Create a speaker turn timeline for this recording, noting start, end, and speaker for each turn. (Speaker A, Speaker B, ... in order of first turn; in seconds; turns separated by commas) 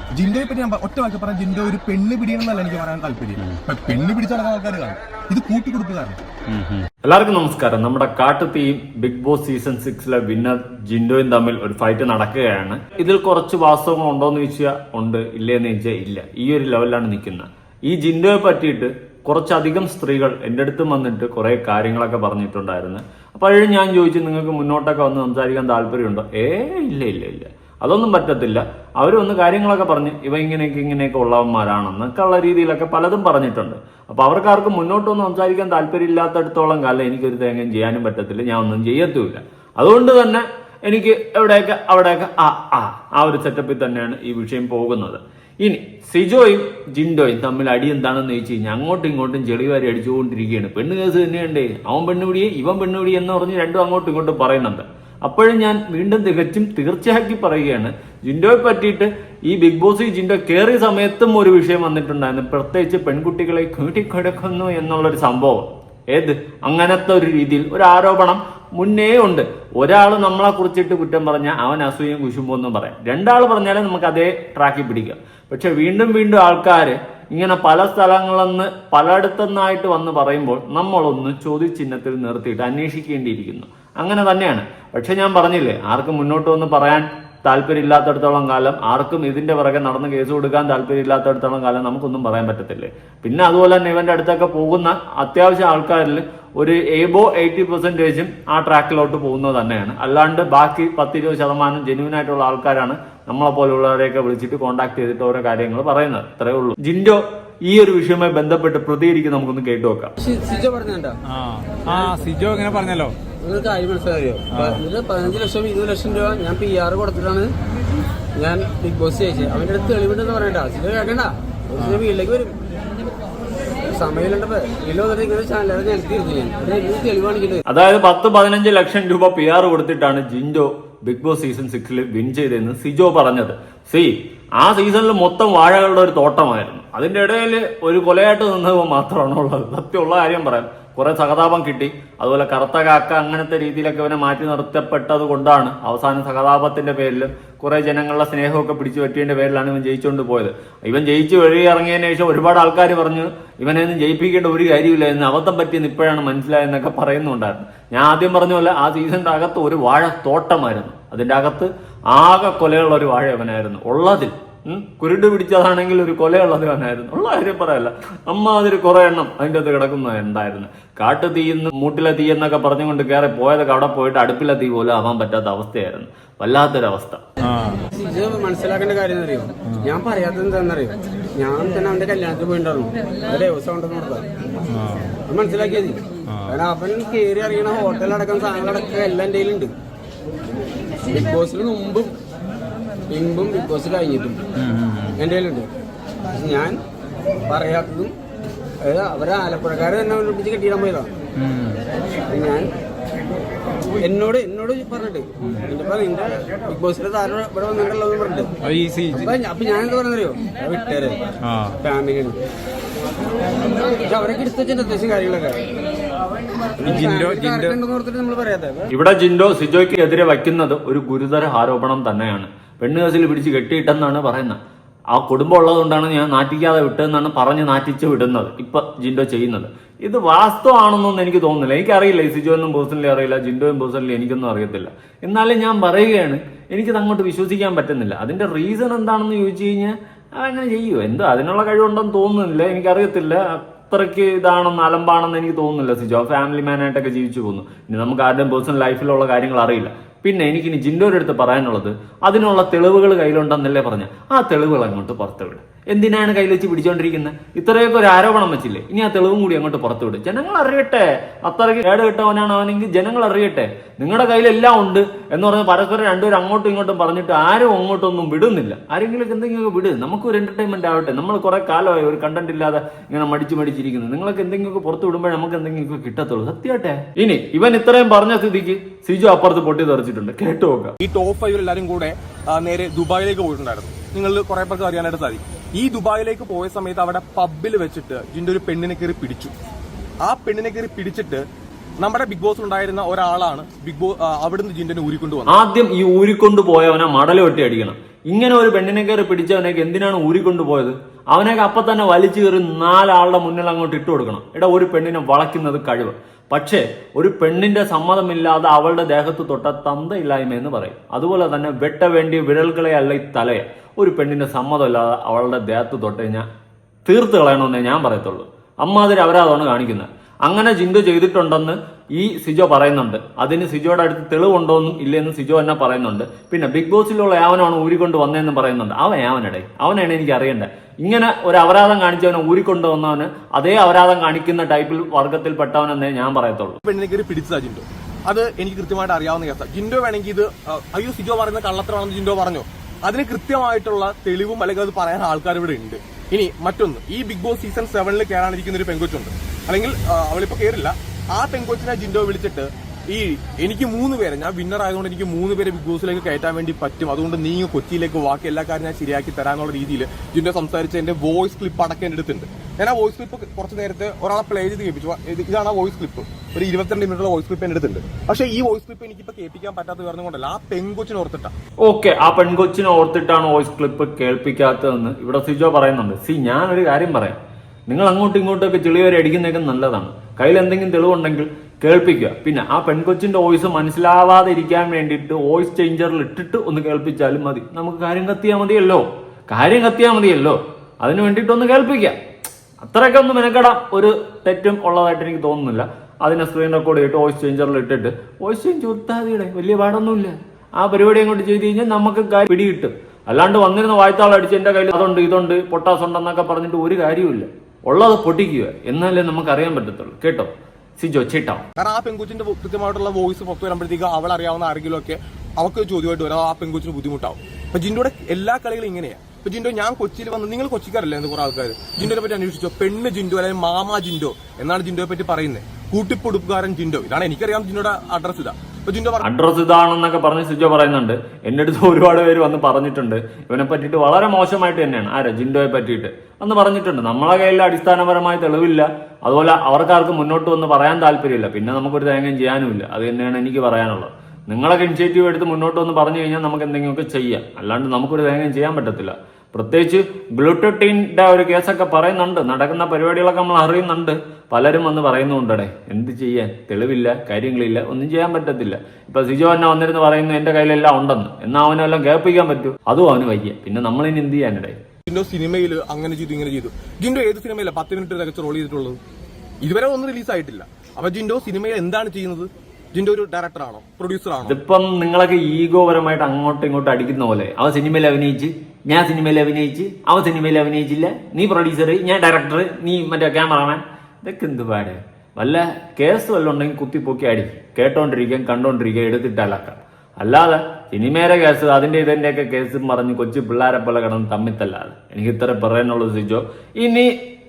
Speaker A: 0.1-6.2, Speaker B: 6.5-6.9, Speaker C: 7.0-110.1, Speaker D: 110.2-111.2, Speaker B: 111.3-113.2, Speaker D: 113.4-117.5, Speaker B: 114.5-114.8, Speaker D: 118.4-122.5, Speaker D: 123.9-127.6, Speaker C: 127.7-177.2, Speaker B: 177.4-177.8, Speaker D: 177.9-184.3, Speaker B: 184.7-185.2, Speaker D: 185.3-189.7, Speaker B: 186.3-186.6, Speaker D: 191.1-192.1, Speaker D: 193.1-194.4, Speaker B: 194.6-195.2, Speaker D: 195.2-195.7, Speaker D: 196.3-196.8, Speaker D: 197.5-198.1, Speaker D: 198.8-201.1, Speaker B: 201.4-201.8, Speaker D: 202.3-202.7, Speaker D: 204.0-208.5, Speaker B: 208.6-209.3, Speaker D: 209.1-211.2, Speaker B: 211.4-211.7, Speaker D: 211.8-212.4, Speaker D: 213.8-215.7, Speaker D: 216.8-218.9, Speaker B: 216.8-217.8, Speaker C: 218.9-224.6, Speaker C: 225.1-280.9, Speaker A: 281.0-289.5, Speaker A: 290.2-291.4, Speaker A: 292.0-295.6, Speaker C: 295.5-316.4, Speaker C: 317.1-336.8, Speaker A: 336.9-371.5, Speaker C: 371.8-392.2, Speaker C: 392.8-411.6, Speaker A: 411.8-429.3, Speaker C: 429.2-464.8, Speaker A: 465.1-469.0, Speaker A: 469.6-474.6, Speaker C: 474.4-497.1